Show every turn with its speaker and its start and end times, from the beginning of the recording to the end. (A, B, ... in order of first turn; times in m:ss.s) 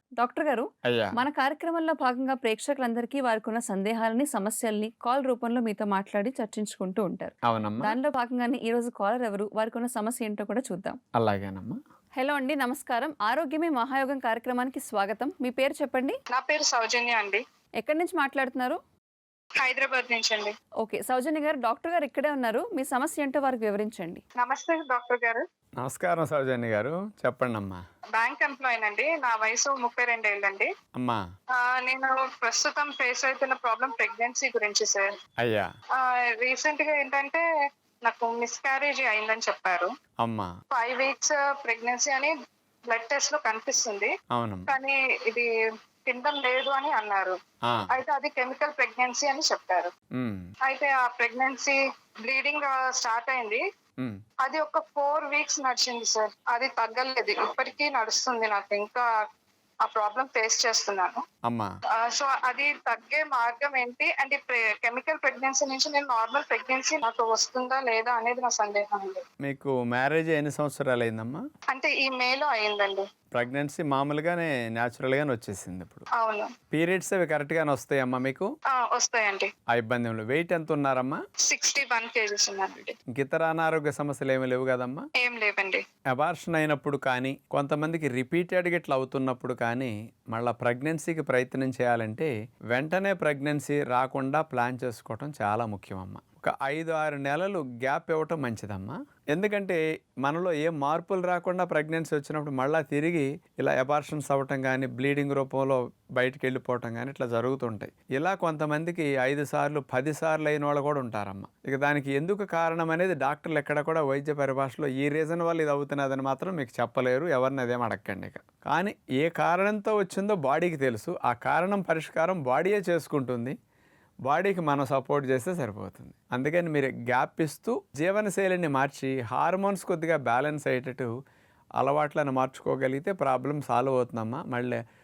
0:00.2-0:11.0 A
0:00.8-0:01.1 B
0:07.4-0:08.0 B
0:11.2-0:11.8 B
0:12.2-0:16.2 A
0:16.3-0:17.4 C
0:17.8-0:18.8 A
0:19.6-0:20.5 C
0:20.8-0:24.2 A
0:24.4-0:25.4 C
0:25.8-0:27.8 B
0:28.2-0:30.7 C
0:31.0-0:31.2 B
0:31.5-0:35.1 C
0:35.4-0:35.7 B
0:36.0-0:37.4 C
0:38.0-0:39.9 C
0:40.2-0:40.5 B
0:40.7-0:42.3 C
0:42.9-0:44.1 C
0:44.3-0:44.7 B
0:44.7-0:45.5 C
0:46.0-0:47.4 C
0:47.9-0:49.9 C
0:50.2-0:50.4 B
0:50.7-0:53.6 C
0:54.4-0:59.0 C
0:59.8-1:01.2 C
1:02.0-1:09.2 C
1:09.4-1:11.4 B
1:11.7-1:13.0 C
1:13.3-1:16.0 B
1:16.2-1:16.5 C
1:16.7-1:18.5 B
1:18.7-1:19.5 C
1:19.7-1:21.2 B
1:21.5-1:22.9 C
1:23.1-1:25.0 B
1:25.2-1:25.8 C
1:26.1-2:03.5 B
2:04.3-2:11.1 B
2:11.8-2:14.8 B